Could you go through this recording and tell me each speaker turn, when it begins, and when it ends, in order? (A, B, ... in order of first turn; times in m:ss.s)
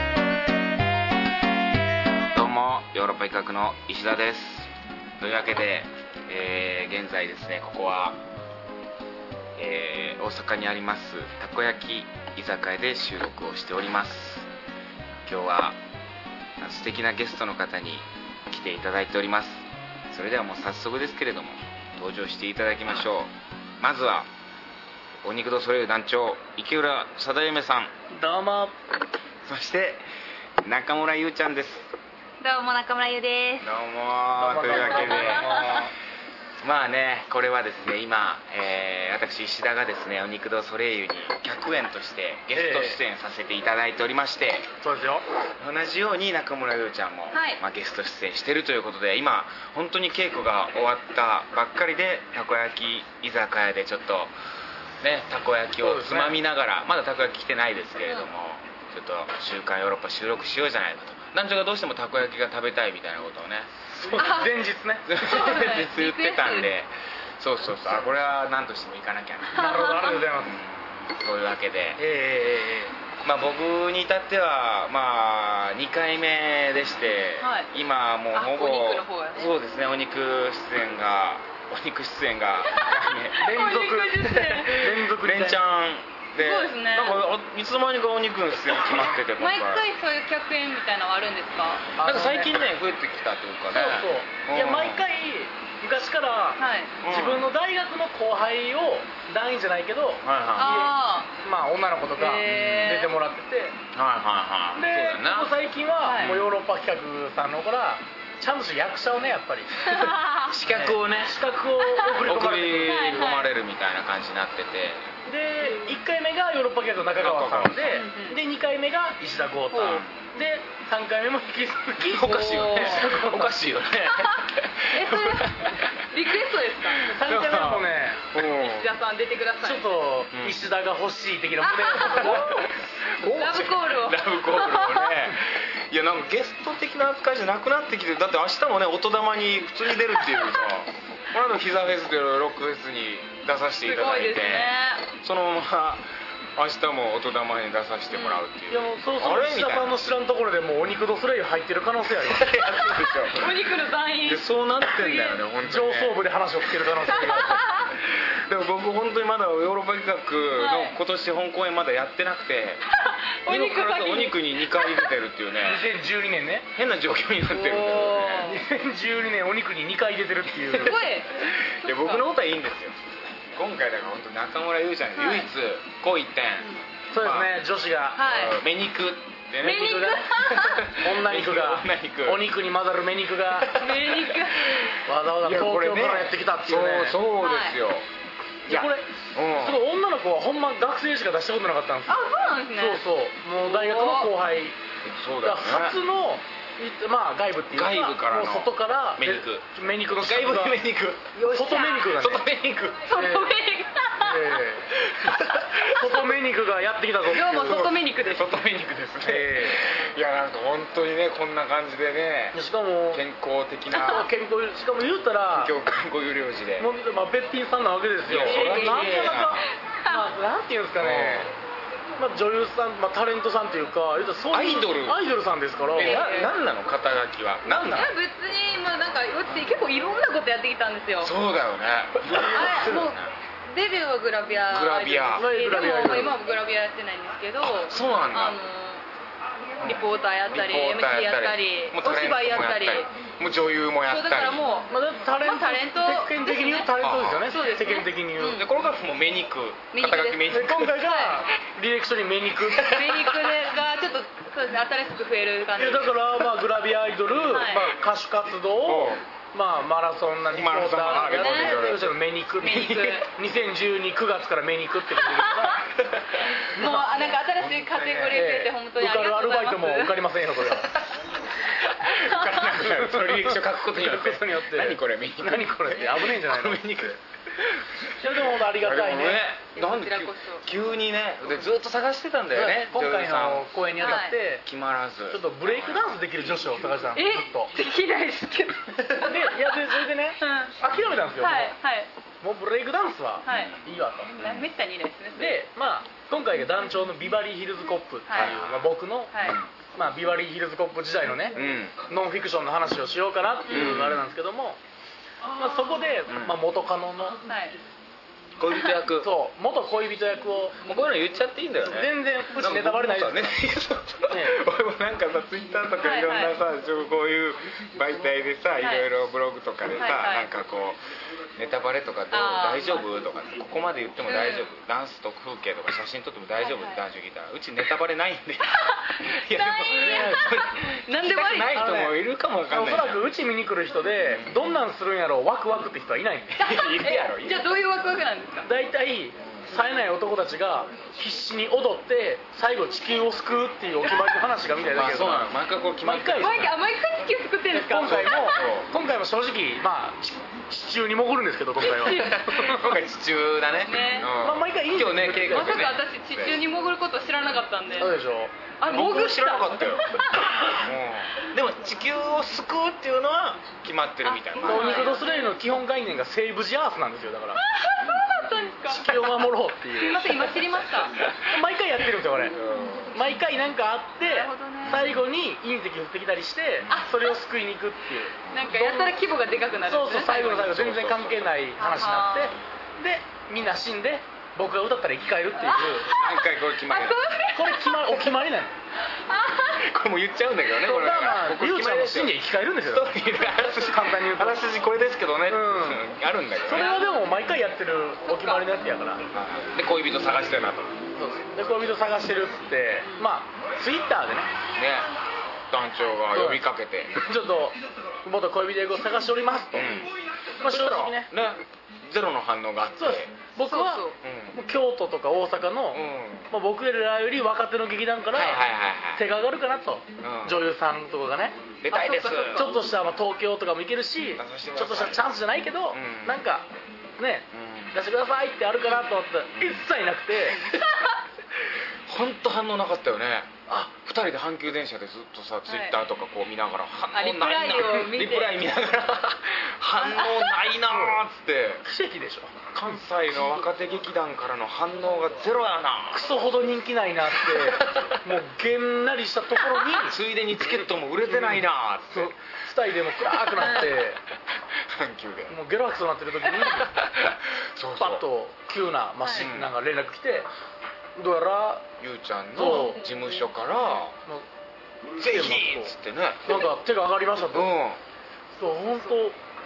0:02.3-0:08.2 A
0:09.6-0:14.5 A
0:15.2-0:15.8 A
0:16.6-0:24.3 A
0:25.2-0:27.9 A
0:28.1-0:28.7 B
0:29.4-0:30.0 A
0:30.6-0:31.9 A
0:32.4-0:33.7 C
0:33.6-0:35.9 A
0:34.4-0:35.9 B
0:34.9-0:35.8 C
0:36.6-0:44.7 A
0:42.5-0:43.0 B
0:44.8-0:45.2 B
0:45.6-0:54.3 A
0:47.3-0:47.6 C
0:55.0-1:04.3 A
0:55.8-0:56.4 B
1:03.9-1:05.2 B
1:04.2-1:04.6 C
1:05.1-1:09.6 A
1:05.2-1:06.7 C
1:09.5-1:10.2 C
1:09.5-1:10.6 B
1:10.4-1:12.0 A
1:12.0-1:12.9 B
1:13.2-1:23.4 A
1:17.4-1:17.7 C
1:18.3-1:19.5 C
1:22.7-1:24.9 C
1:23.4-1:25.7 B
1:25.0-1:29.9 A
1:26.4-1:27.2 C
1:29.4-1:31.9 C
1:32.0-1:32.7 B
1:32.0-1:35.0 A
1:33.7-1:43.8 B
1:36.6-1:37.0 C
1:37.0-1:37.5 A
1:40.2-1:40.8 A
1:40.6-1:41.3 C
1:42.2-1:43.1 C
1:42.4-1:43.0 A
1:43.9-1:45.6 A
1:44.8-1:50.2 B
1:46.0-1:46.3 C
1:46.2-1:46.5 A
1:49.8-1:50.6 C
1:50.5-1:51.4 A
1:50.7-1:53.0 B
1:51.8-1:52.1 C
1:52.1-1:55.1 A
1:52.8-1:53.4 C
1:55.2-2:03.6 B
1:57.2-1:58.0 A
1:57.9-1:58.4 C
1:59.7-2:00.1 A
2:02.0-2:06.0 A
2:02.3-2:03.1 C
2:04.1-2:07.0 C
2:06.9-2:08.9 A
2:07.1-2:08.2 B
2:08.4-2:10.0 C
2:09.6-2:12.6 B
2:10.3-2:10.7 A
2:11.6-2:15.3 C
2:12.2-2:12.6 A
2:13.1-2:30.1 A
2:23.8-2:25.1 C
2:28.1-2:28.4 C
2:28.7-2:32.6 B
2:32.2-2:33.5 A
2:33.3-2:35.4 C
2:34.2-2:42.8 A
2:35.6-2:37.7 B
2:37.2-2:37.9 C
2:40.5-2:41.0 C
2:42.9-2:45.1 C
2:43.4-2:45.9 A
2:45.6-2:46.7 B
2:46.7-2:48.6 A
2:47.5-2:48.6 C
2:48.4-2:51.0 B
2:50.7-2:52.3 C
2:51.3-2:57.6 A
2:55.2-2:55.5 C
2:57.1-2:58.2 B
2:58.2-2:58.6 C
2:58.2-3:02.5 A
2:59.6-3:00.9 C
2:59.6-3:00.3 B
3:00.9-3:03.8 B
3:03.6-3:04.8 A
3:03.7-3:04.9 C
3:05.0-3:07.2 B
3:05.4-3:08.1 A
3:07.4-3:07.8 C
3:08.7-3:09.8 A
3:08.7-3:14.8 B
3:12.1-3:13.0 C
3:13.6-3:14.3 C
3:15.0-3:16.0 A
3:15.4-3:20.8 B
3:17.7-3:21.3 A
3:21.3-3:22.3 C
3:21.5-3:22.4 B
3:22.1-3:23.1 A
3:23.1-3:24.6 C
3:23.1-3:23.5 B
3:24.2-3:27.9 B
3:25.1-3:26.1 A
3:27.3-3:28.6 C
3:27.4-3:32.6 A
3:29.2-3:29.8 B
3:32.5-3:33.2 B
3:33.1-3:34.3 A
3:33.9-3:35.7 B
3:35.4-3:36.9 A
3:36.8-3:41.5 B
3:38.2-3:39.6 A
3:38.3-3:39.4 C
3:40.0-3:40.3 C
3:41.0-3:41.5 A
3:42.2-3:46.2 B
3:44.5-3:45.2 A
3:45.9-3:48.1 A
3:46.0-3:46.5 C
3:47.7-3:51.3 C
3:51.2-3:53.3 A
3:52.4-3:53.2 C
3:53.7-3:59.0 C
3:54.7-3:55.5 A
3:55.4-3:56.3 B
3:57.6-3:58.6 A
3:59.8-4:03.1 C
3:59.8-4:04.6 A
4:04.0-4:06.9 C
4:04.9-4:08.6 B
4:07.0-4:07.5 A
4:07.5-4:08.7 C
4:08.5-4:11.0 A
4:09.9-4:11.4 C
4:10.5-4:13.3 B
4:12.8-4:16.4 C
4:15.8-4:25.8 B
4:17.4-4:18.0 C
4:18.8-4:19.2 A
4:20.5-4:22.2 A
4:21.1-4:22.0 C
4:22.6-4:23.3 C
4:25.2-4:25.8 C
4:26.6-4:30.2 C
4:26.8-4:27.0 B
4:27.1-4:28.5 A
4:28.3-4:30.9 B
4:31.8-4:32.7 C
4:31.8-4:46.2 A
4:32.8-4:37.2 B
4:38.2-4:39.4 B
4:39.7-4:40.6 C
4:42.5-4:44.6 B
4:44.0-4:44.4 C
4:45.3-4:47.7 B
4:47.1-4:49.8 C
4:49.1-4:51.7 B
4:50.4-4:50.8 C
4:50.9-4:51.3 A
4:51.4-4:52.1 C
4:52.4-4:54.5 B
4:53.4-4:53.8 C
4:54.4-4:55.6 C
4:54.4-4:54.7 A
4:55.4-4:59.3 B
4:58.3-4:58.6 C
4:58.3-4:58.9 A
4:59.3-4:59.6 C
4:59.9-5:04.8 B
5:01.5-5:02.0 A
5:03.7-5:04.2 A
5:05.5-5:07.4 B
5:05.6-5:05.9 C
5:06.3-5:06.6 A
5:07.4-5:07.8 C
5:08.6-5:09.3 A
5:09.2-5:10.8 B
5:10.8-5:21.0 A
5:11.8-5:13.6 B
5:14.3-5:14.6 B
5:16.0-5:16.5 C
5:18.8-5:19.1 C
5:20.0-5:20.5 C
5:21.6-5:33.2 A
5:22.3-5:23.1 C
5:24.2-5:24.7 C
5:26.6-5:27.0 C
5:28.7-5:32.0 C
5:30.0-5:30.5 B
5:31.7-5:36.6 B
5:34.3-5:34.7 A
5:36.6-5:37.7 A
5:36.6-5:38.7 C
5:38.6-5:45.5 B
5:44.9-5:46.8 A
5:46.0-5:46.7 B
5:46.4-5:48.5 C
5:47.7-5:52.8 B
5:48.0-5:48.9 A
5:51.8-5:53.0 C
5:51.9-5:56.6 A
5:53.8-5:54.3 C
5:54.3-5:55.8 B
5:55.4-5:58.1 C
5:58.0-5:58.5 B
5:58.8-6:00.4 C
5:58.8-6:00.1 A
6:00.6-6:05.1 A
6:04.2-6:05.5 C
6:04.6-6:07.6 B
6:07.6-6:11.2 C
6:08.9-6:10.5 B
6:11.4-6:12.6 B
6:12.5-6:13.2 A
6:13.1-6:19.2 B
6:14.2-6:15.1 C
6:14.8-6:15.2 A
6:16.8-6:17.1 A
6:18.5-6:20.6 C
6:19.9-6:26.1 B
6:20.4-6:21.5 A
6:21.8-6:22.6 C
6:25.6-6:28.4 C
6:26.1-6:27.2 A
6:27.5-6:28.8 B
6:29.3-6:29.8 C
6:29.6-6:37.0 A
6:30.8-6:33.1 B
6:33.8-6:34.6 B
6:35.5-6:36.1 B
6:36.7-6:39.2 B
6:36.7-6:37.4 C
6:38.2-6:38.7 C
6:39.3-6:41.0 A
6:41.2-6:44.5 B
6:44.8-6:45.1 A
6:45.7-6:47.2 A
6:46.3-6:46.6 B
6:47.2-6:50.0 B
6:49.7-6:50.1 A
6:50.6-6:51.3 B
6:50.6-6:53.3 A
6:53.0-6:58.6 B
6:53.6-6:54.2 C
6:54.2-6:54.6 A
6:55.9-6:56.5 A
6:58.3-6:59.2 A
6:59.1-7:01.6 B
7:00.2-7:00.6 A
7:01.8-7:02.7 A
7:01.9-7:02.8 C
7:02.6-7:06.7 B
7:04.4-7:05.3 A
7:05.9-7:06.4 A
7:07.2-7:10.6 B
7:07.5-7:08.0 A
7:09.5-7:09.8 A
7:10.5-7:11.2 C
7:12.1-7:21.8 A
7:15.7-7:16.0 C
7:17.1-7:18.6 C
7:20.0-7:20.6 C
7:20.9-7:21.2 B
7:21.8-7:22.6 B
7:22.7-7:26.3 A
7:26.1-7:30.2 B
7:27.5-7:28.1 A
7:29.9-7:32.3 A
7:31.2-7:34.2 B
7:33.6-7:33.9 C
7:34.7-7:35.6 A
7:35.5-7:36.9 B
7:36.9-7:38.2 A
7:38.0-7:40.5 B
7:39.2-7:39.5 C
7:39.4-7:39.7 A
7:41.2-7:41.8 B
7:42.0-7:44.2 A
7:42.5-7:43.0 B
7:45.2-7:46.6 A
7:45.2-7:45.9 B
7:46.4-7:47.7 B
7:47.5-7:48.0 A
7:48.6-7:49.4 B